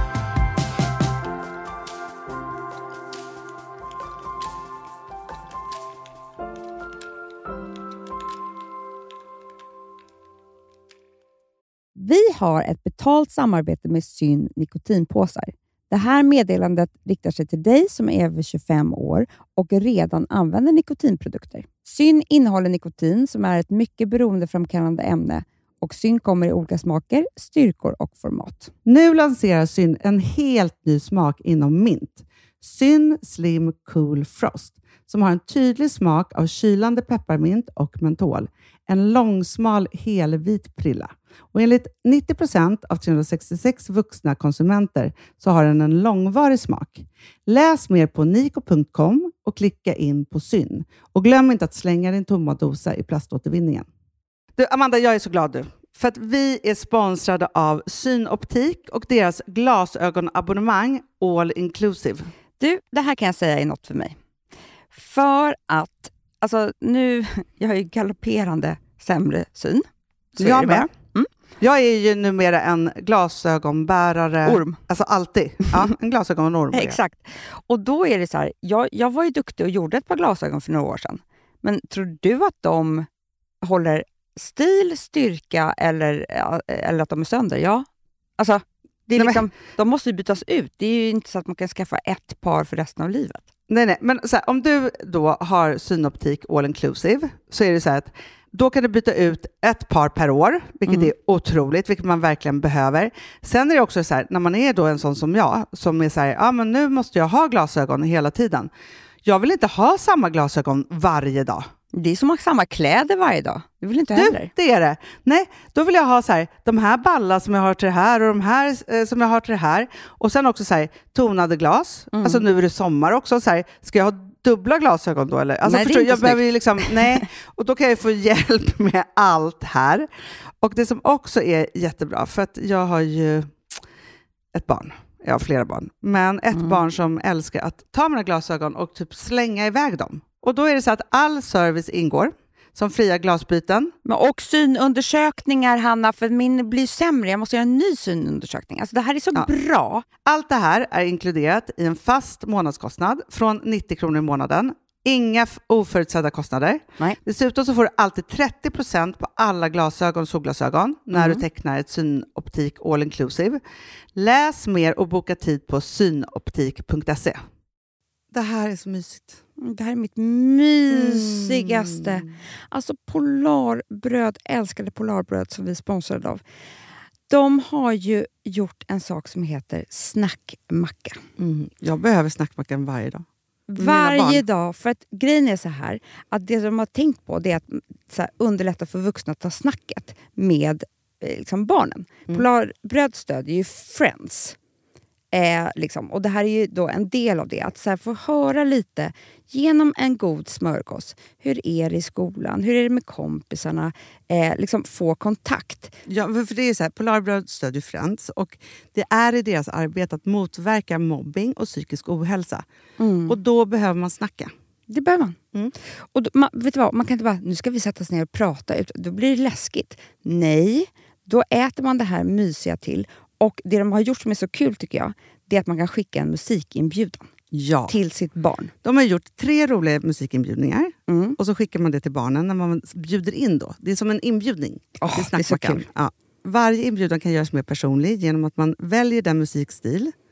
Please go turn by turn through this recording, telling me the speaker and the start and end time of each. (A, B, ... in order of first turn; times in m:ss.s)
0:12.0-0:28.7 A
0:28.9-0:53.9 B
0:54.6-1:02.3 B
1:02.6-1:04.2 A
1:04.9-1:09.9 A
1:10.4-1:11.3 A
1:10.4-1:10.9 B
1:11.6-1:17.0 B
1:14.4-1:14.8 A
1:16.7-1:23.1 A
1:23.6-1:27.9 A
1:28.4-1:33.5 A
1:33.7-1:48.7 B
1:49.2-1:51.7 B
1:51.9-1:54.5 A
1:54.2-2:10.1 B
2:02.1-2:02.5 A
2:05.6-2:07.3 A
2:10.6-2:13.7 B
2:14.5-2:23.9 B
2:16.5-2:16.8 A
2:24.0-2:30.0 A
2:30.2-2:43.6 B
2:41.1-2:41.4 A
2:44.2-2:47.4 B
2:48.3-2:49.4 B
2:49.6-2:56.4 A
2:50.9-2:52.2 B
2:57.3-3:01.2 A
3:01.4-3:03.2 B
3:03.7-3:14.6 A
3:03.8-3:04.4 B
3:15.3-3:26.0 A
3:26.0-3:32.6 B
3:33.0-3:33.4 A
3:33.3-3:34.5 B
3:34.9-3:35.4 A
3:36.0-3:47.3 A
3:47.5-3:47.9 B
3:47.9-3:48.7 A
3:48.8-4:00.1 B
3:51.1-3:51.4 A
3:55.0-3:55.9 A